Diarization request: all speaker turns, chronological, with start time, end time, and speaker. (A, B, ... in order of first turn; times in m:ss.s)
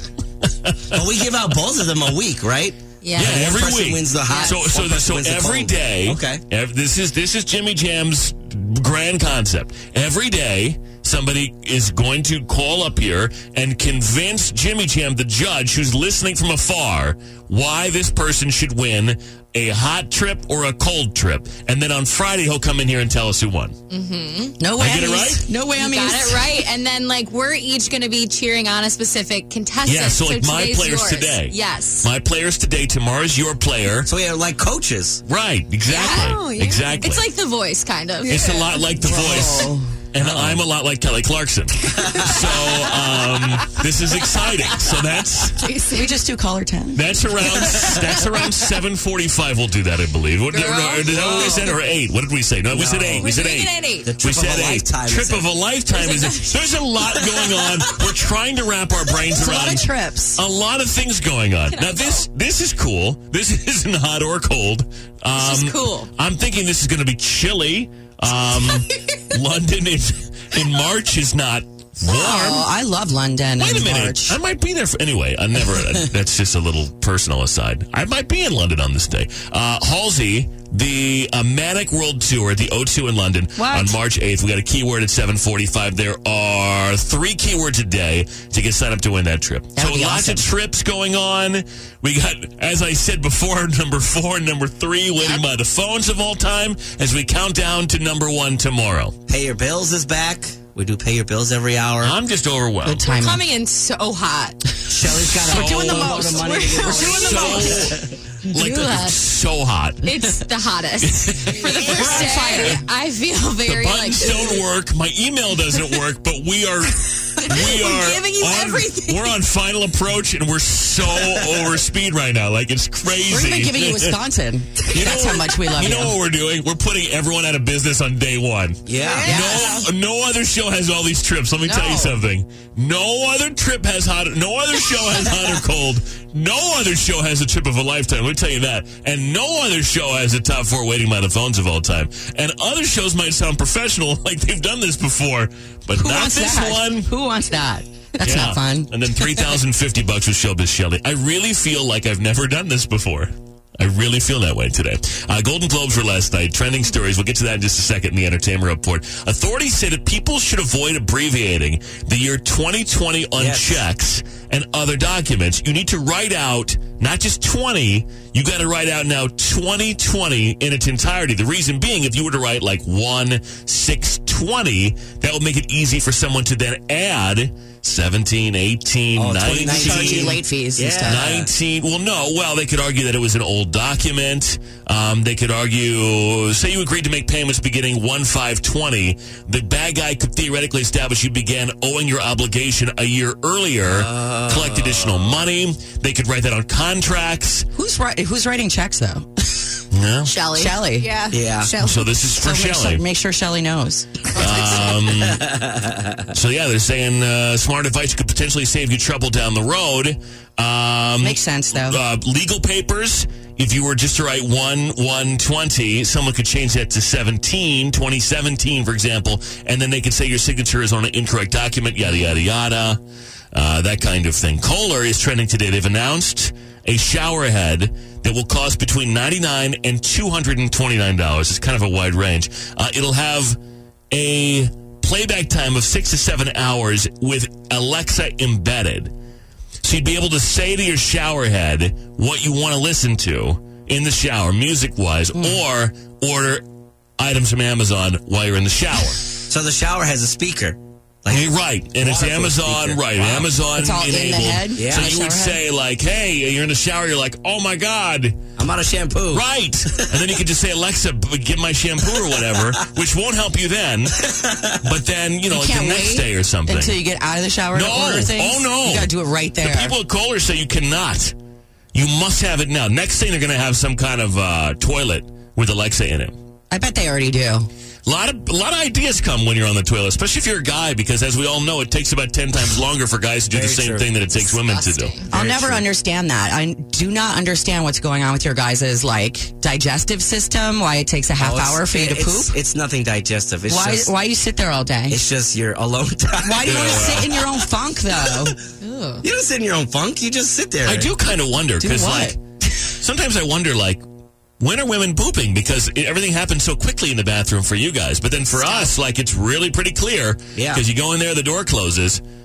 0:00.6-0:01.0 A
0:00.9-0:06.4 B
0:03.0-0:03.5 C
0:03.2-0:23.7 A
0:04.3-0:04.6 C
0:23.9-0:24.6 C
0:24.6-0:26.4 D
0:24.8-0:25.4 A
0:25.8-0:32.1 C
0:29.8-0:34.1 A
0:34.0-0:35.2 B
0:35.3-0:37.2 A
0:35.9-0:38.5 C
0:38.3-0:45.6 A
0:39.0-0:39.9 D
0:40.2-0:40.6 B
0:42.0-0:42.4 B
0:45.6-0:46.2 C
0:45.9-0:47.1 D
0:46.9-1:12.5 A
0:47.6-0:48.0 B
0:50.5-0:51.8 C
0:51.1-0:51.6 B
0:52.7-0:53.3 B
0:53.2-0:54.1 C
0:54.0-0:55.5 B
0:55.9-0:56.6 C
0:59.3-1:00.4 D
1:01.7-1:02.2 C
1:05.3-1:06.1 C
1:12.0-1:14.4 D
1:12.1-1:12.6 C
1:13.6-1:39.2 A
1:23.6-1:23.9 D
1:29.8-1:30.5 D
1:39.3-1:42.1 B
1:42.0-1:43.0 A
1:42.8-1:43.4 D
1:43.0-1:44.6 C
1:44.9-1:48.0 B
1:45.3-1:47.7 D
1:45.4-1:46.2 A
1:46.0-1:47.9 C
1:46.9-1:50.2 A
1:48.5-1:49.2 C
1:50.0-1:54.6 C
1:51.0-1:52.8 A
1:51.6-1:52.5 B
1:51.8-1:52.8 D
1:53.6-2:04.2 A
1:57.4-1:59.3 C
2:01.2-2:01.7 B
2:03.3-2:06.1 D
2:04.9-2:27.1 A
2:08.8-2:09.3 B
2:09.0-2:09.8 C
2:09.2-2:09.8 D
2:11.7-2:12.1 D
2:25.9-2:29.5 D
2:28.2-3:00.4 A
2:43.4-2:43.8 B
2:59.2-3:01.5 B
2:59.7-3:01.5 D
3:01.0-3:17.7 A
3:13.8-3:15.4 B
3:17.7-3:19.5 D
3:19.9-3:20.3 A
3:20.2-3:22.1 C
3:20.6-3:21.1 D
3:21.3-3:21.7 B
3:21.8-3:23.0 A
3:22.4-3:24.6 D
3:24.4-3:25.5 A
3:24.4-3:24.9 C
3:25.2-3:26.2 B
3:26.3-3:43.0 A
3:31.2-3:32.0 D
3:43.5-3:53.6 A
3:54.1-3:59.1 A
3:59.8-4:06.6 A
4:05.3-4:05.6 D
4:07.2-4:09.2 A
4:09.5-4:13.5 B
4:11.3-4:18.4 A
4:13.8-4:15.6 D
4:14.8-4:15.1 B
4:18.6-4:20.3 B
4:19.3-4:24.2 A
4:22.1-4:22.8 B
4:24.3-4:24.8 B
4:24.8-4:27.0 A
4:25.5-4:29.9 D
4:27.7-4:31.3 A
4:31.9-4:36.3 A
4:36.7-4:37.7 D
4:38.0-4:45.2 A
4:43.5-4:44.1 B
4:44.3-4:45.3 C
4:45.3-4:52.5 D
4:45.3-4:45.8 B
4:51.4-4:54.1 B
4:53.7-4:55.2 D
4:55.1-4:57.3 B
4:56.4-4:58.6 D
4:56.6-4:57.3 A
4:58.2-4:58.5 B
4:58.8-4:59.2 C
4:59.2-5:01.1 B
5:00.8-5:02.4 A
5:01.8-5:02.4 D
5:03.0-5:04.0 A
5:04.6-5:12.2 A
5:08.6-5:08.9 C
5:10.5-5:10.8 B